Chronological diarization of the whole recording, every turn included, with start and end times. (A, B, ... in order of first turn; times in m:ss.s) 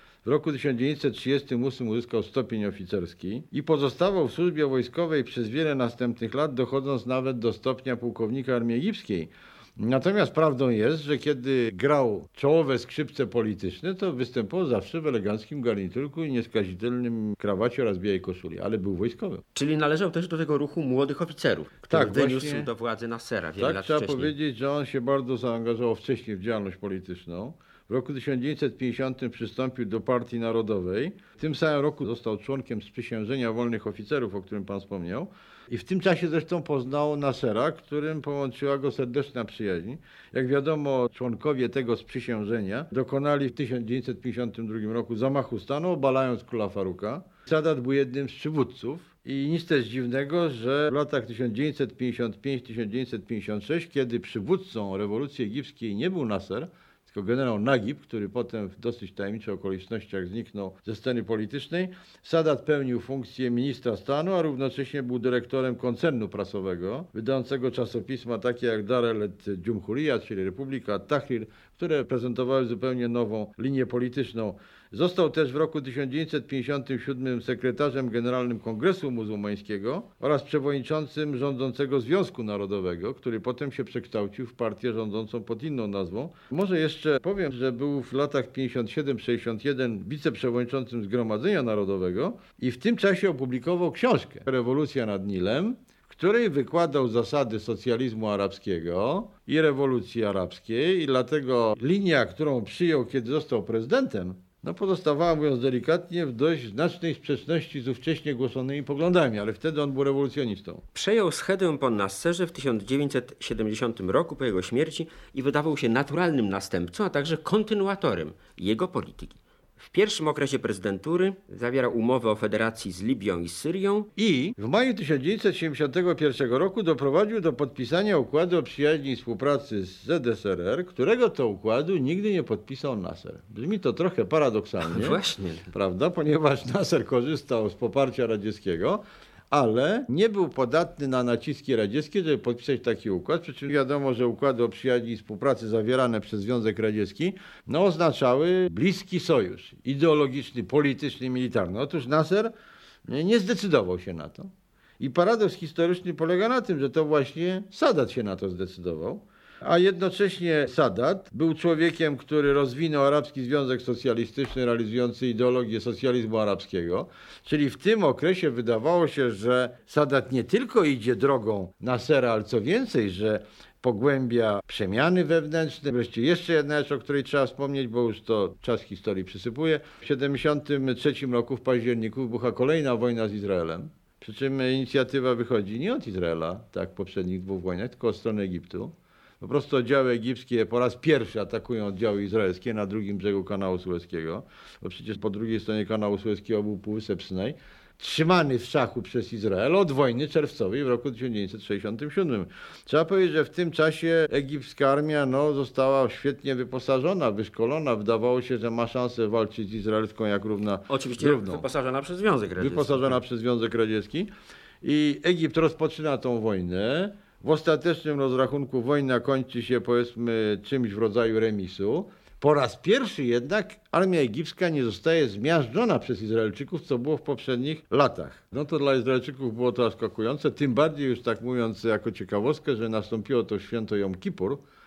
0:00.2-0:19.4 A
0:19.6-0:24.3 B
0:21.9-0:22.7 A
0:23.6-1:50.8 A
1:50.9-2:04.1 B
2:04.2-2:15.2 A
2:14.8-2:15.7 B
2:15.7-2:32.5 A
2:33.1-3:31.7 A
3:30.9-3:33.2 B
3:32.6-3:34.3 A
3:34.8-3:54.6 A